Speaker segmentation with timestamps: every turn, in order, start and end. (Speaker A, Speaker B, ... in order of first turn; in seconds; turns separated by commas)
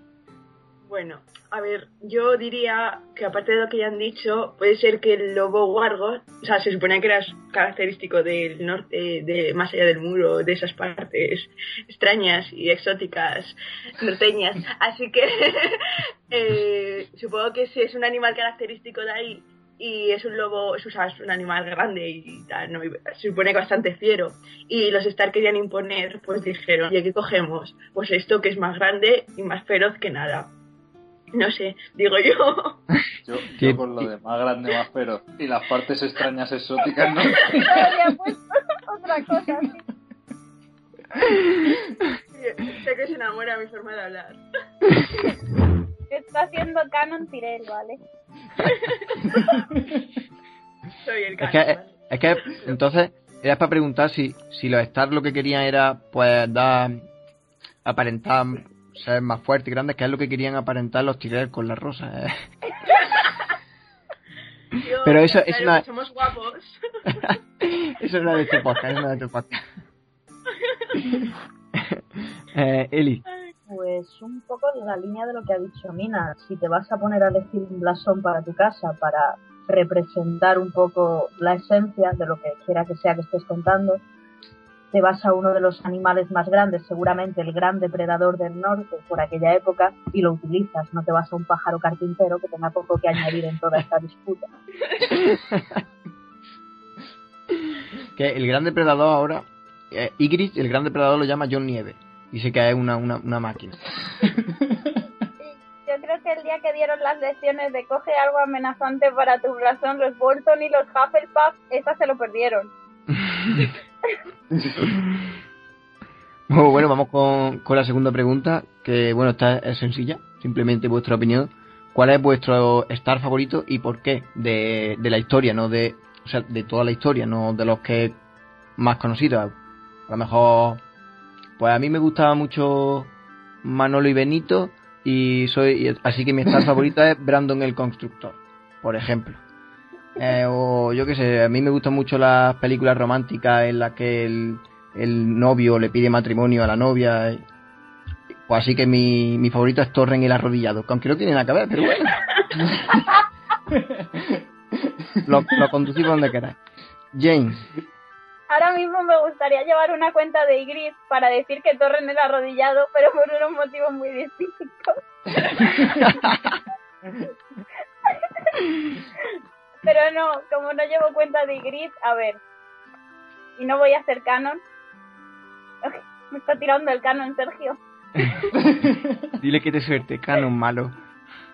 Speaker A: 0.8-30.5, Speaker A: 31.3-32.8, Speaker B: 33.2-38.0, Speaker C: 37.5-39.8, Speaker A: 42.3-44.4, Speaker C: 46.1-48.0, Speaker A: 48.6-49.1, Speaker A: 51.0-52.7, Speaker D: 51.4-57.0, Speaker D: 57.8-62.4, Speaker A: 64.7-66.8, Speaker D: 65.0-65.8, Speaker D: 67.1-69.6, Speaker A: 70.5-71.0, Speaker D: 71.8-73.2, Speaker E: 73.7-84.0, Speaker E: 84.9-94.5, Speaker D: 95.5-95.8, Speaker D: 98.2-103.8, Speaker C: 105.4-112.7, Speaker D: 113.3-113.6, Speaker D: 116.5-128.2, Speaker D: 128.8-129.5, Speaker D: 130.1-130.8, Speaker D: 131.6-133.1, Speaker D: 133.6-139.4, Speaker D: 140.2-147.4, Speaker D: 148.4-152.2, Speaker B: 153.8-155.2, Speaker D: 155.2-156.6, Speaker D: 157.1-157.6, Speaker C: 158.5-165.0, Speaker C: 165.5-166.0, Speaker D: 165.9-166.5, Speaker C: 169.8-172.4, Speaker C: 173.6-174.6, Speaker C: 175.8-177.8, Speaker B: 178.6-179.1, Speaker D: 179.4-180.9